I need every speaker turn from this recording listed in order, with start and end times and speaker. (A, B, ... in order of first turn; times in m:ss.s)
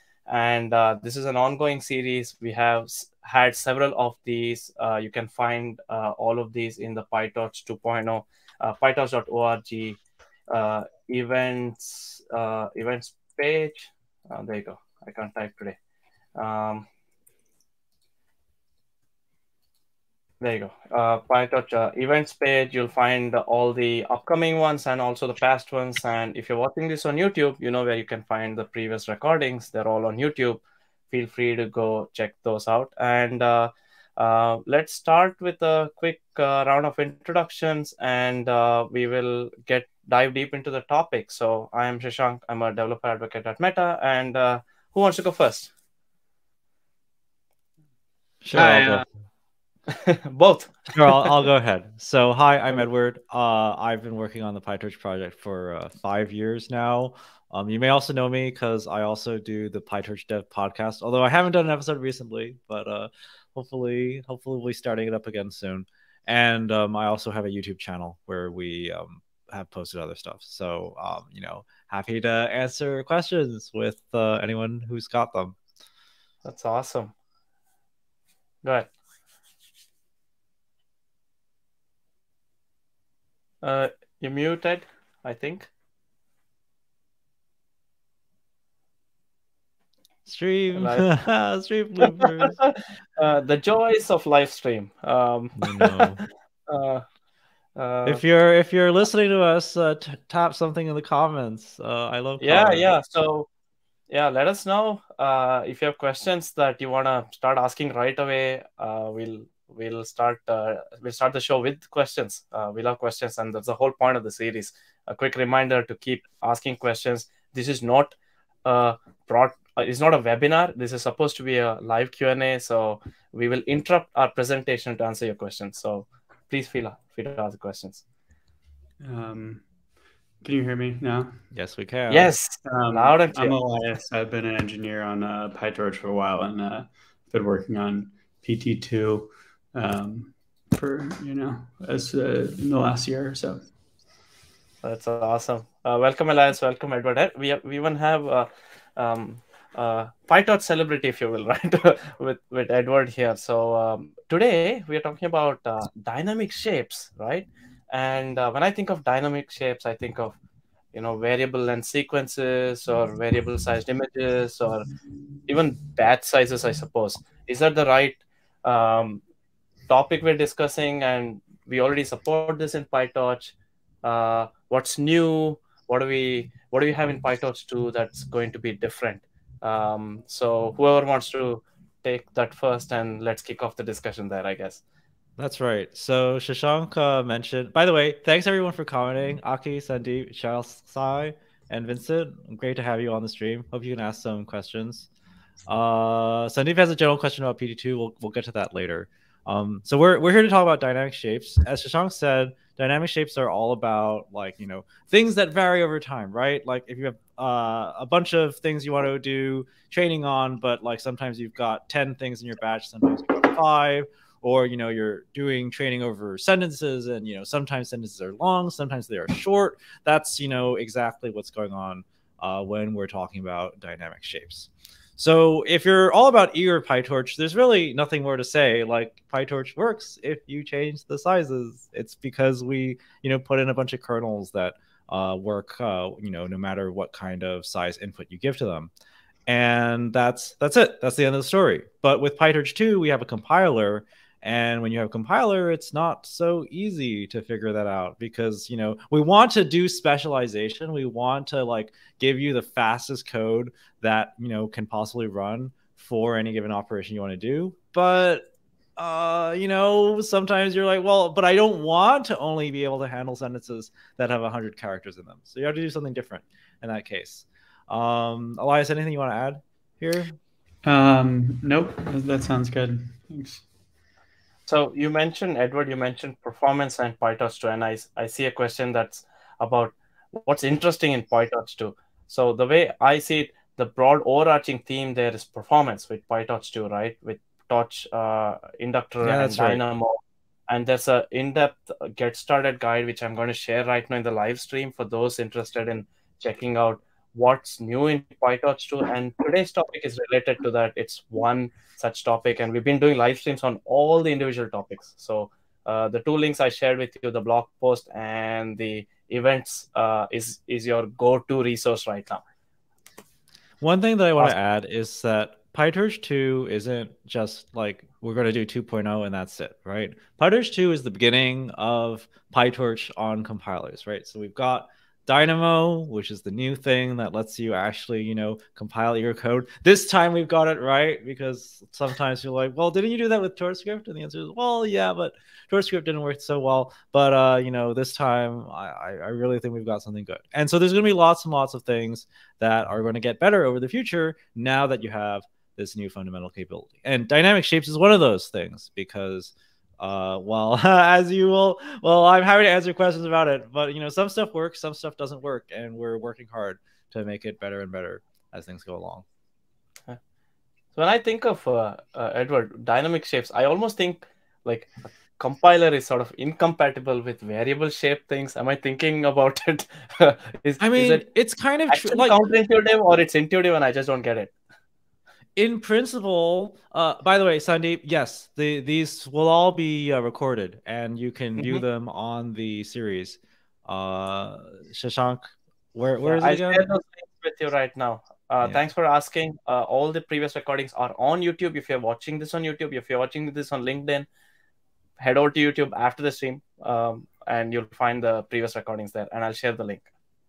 0:00.3-0:10.0 A
0:10.5-0:15.8 A
0:16.4-0:16.8 A
0:20.4-0:45.7 A
0:48.4-0:49.1 B
0:48.5-0:49.0 A
0:49.9-0:51.4 A
0:50.9-1:15.6 B
1:16.4-1:17.1 A
1:18.6-1:18.9 A
1:23.6-1:25.7 A
1:30.2-1:32.6 B
1:30.7-1:31.0 A
1:32.2-1:37.0 A
1:35.6-1:36.2 B
1:37.8-1:38.2 A
1:38.0-1:42.9 B
1:42.4-1:43.5 A
1:44.1-2:08.0 A
2:09.0-2:09.6 C
2:10.4-2:11.4 C
2:11.5-2:12.3 B
2:12.1-2:13.5 A
2:12.6-2:23.6 C
2:24.8-2:40.4 A
2:40.9-2:44.9 A
2:45.4-2:49.2 A
2:49.9-3:04.8 A
3:05.4-3:15.1 B
3:15.7-3:58.9 B
3:59.5-4:18.4 B
4:19.0-4:30.4 B
4:30.8-4:33.6 C
4:34.7-5:12.4 A
4:49.2-4:49.8 B
5:13.8-5:59.2 B
6:00.9-6:11.2 A
6:10.8-6:12.4 B
6:11.9-6:14.5 A
6:15.6-6:26.8 B
6:21.6-6:21.8 A
6:26.2-6:34.2 A
6:35.2-6:40.1 A